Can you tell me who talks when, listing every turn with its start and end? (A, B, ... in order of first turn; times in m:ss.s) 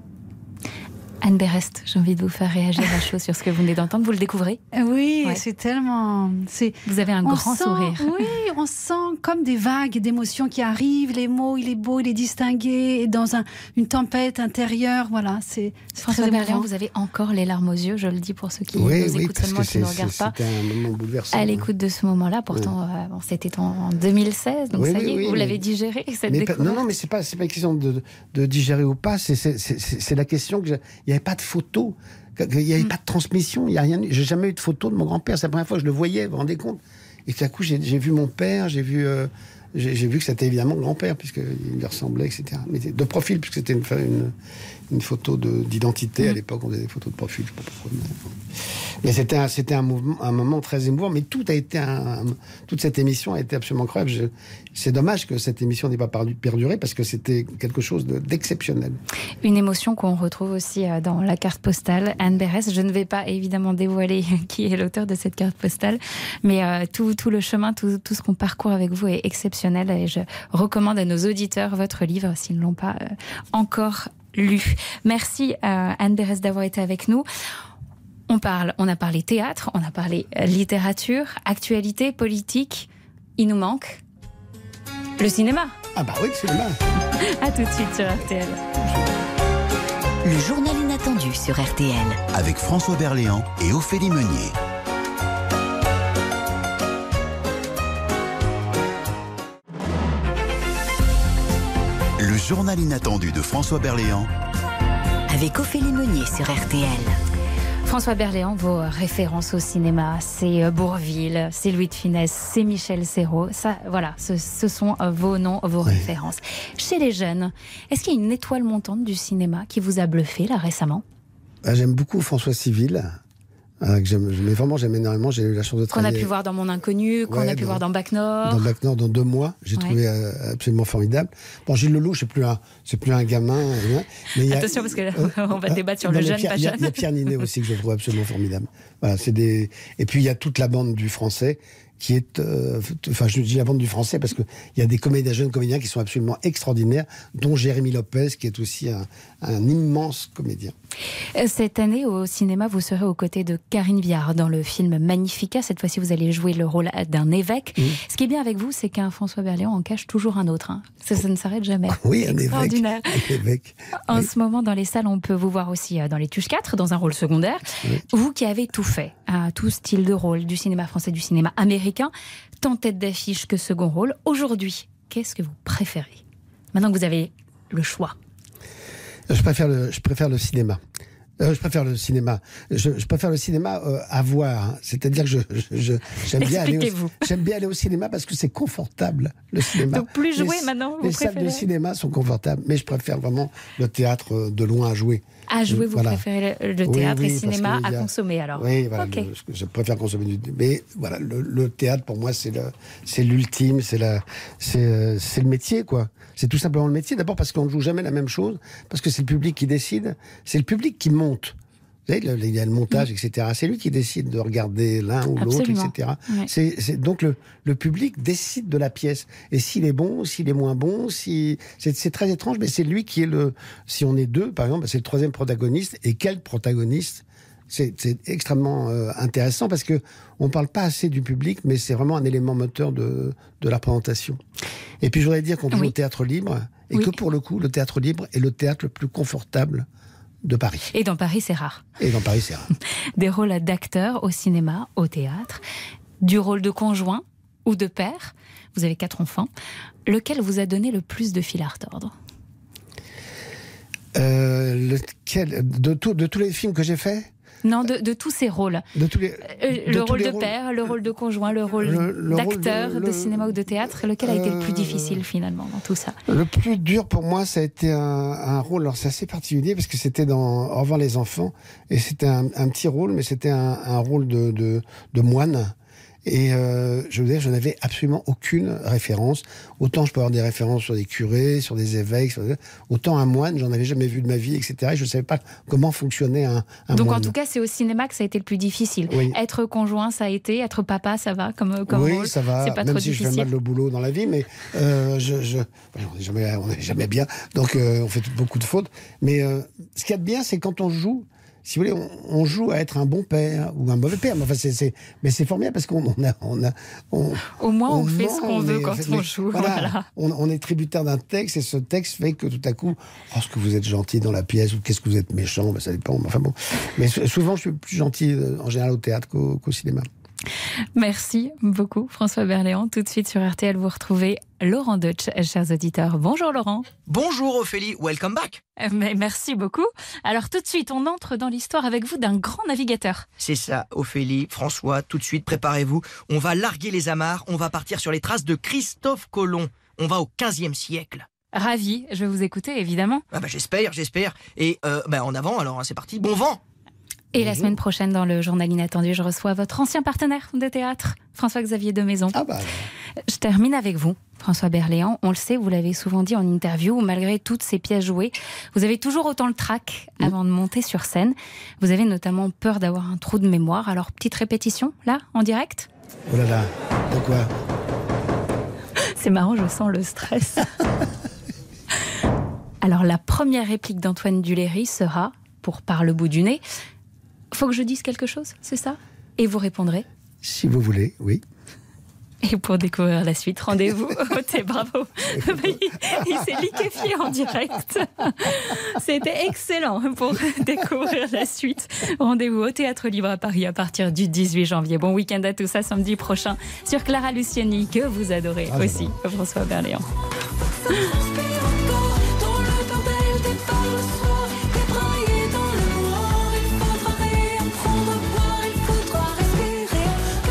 0:01.2-0:04.6 A
0:04.7-0:16.7 B
0:06.9-0:08.3 A
0:16.0-0:20.4 A
0:18.7-0:21.7 C
0:21.3-0:26.8 A
0:24.7-0:25.6 C
0:26.3-0:44.3 C
0:44.9-0:48.4 C
0:49.0-0:59.0 C
0:59.4-1:17.2 A
1:18.3-1:24.0 A
1:25.2-1:25.8 A
1:26.0-1:26.8 C
1:27.2-1:28.6 A
1:30.2-1:32.2 D
1:32.3-1:34.6 E
1:42.2-1:44.3 E
1:45.3-1:47.2 D
1:47.8-2:01.0 A
1:55.8-1:56.1 C
2:01.6-2:03.2 C
2:03.8-2:06.3 C
2:05.9-2:08.7 A
2:07.3-2:07.8 C
2:08.4-2:30.8 C
2:14.4-2:17.3 A
2:31.4-2:43.1 A
2:41.9-2:44.3 C
2:44.0-2:56.2 A
2:56.7-2:58.1 A
2:59.3-3:00.8 C
3:01.4-3:16.2 C
3:06.4-3:07.3 A
3:09.9-3:11.6 A
3:15.5-3:19.3 A
3:16.8-3:31.6 C
3:32.1-3:54.4 C
3:35.4-3:36.5 A
3:55.0-3:59.9 C
3:56.9-3:57.2 A
4:00.4-4:00.9 C
4:00.9-4:01.8 A
4:02.0-4:02.7 C
4:03.2-4:05.6 A
4:06.2-4:09.5 A
4:10.1-4:12.1 A
4:14.1-4:17.3 C
4:17.6-4:18.8 A
4:19.0-4:20.6 C
4:19.5-4:26.2 A
4:21.8-4:25.2 C
4:26.3-4:35.7 C
4:36.2-4:47.3 C
4:46.9-4:53.5 A
4:49.1-4:49.4 C
4:51.9-5:20.1 C
5:07.6-5:10.1 A
5:21.0-5:26.9 A
5:27.1-5:28.6 F
5:28.8-5:33.3 A
5:33.4-5:41.3 F
5:41.5-5:43.2 A
5:43.3-5:46.6 F
5:47.3-5:52.4 A
5:47.4-5:47.8 C
5:52.3-5:52.9 C
5:53.3-6:05.9 A
6:06.3-6:07.5 C
6:09.2-6:10.7 A
6:12.8-6:16.6 A
6:17.5-6:20.0 A
6:20.4-6:21.4 C
6:22.4-6:40.0 A
6:25.3-6:26.4 C
6:38.7-6:39.1 C
6:42.6-6:50.0 A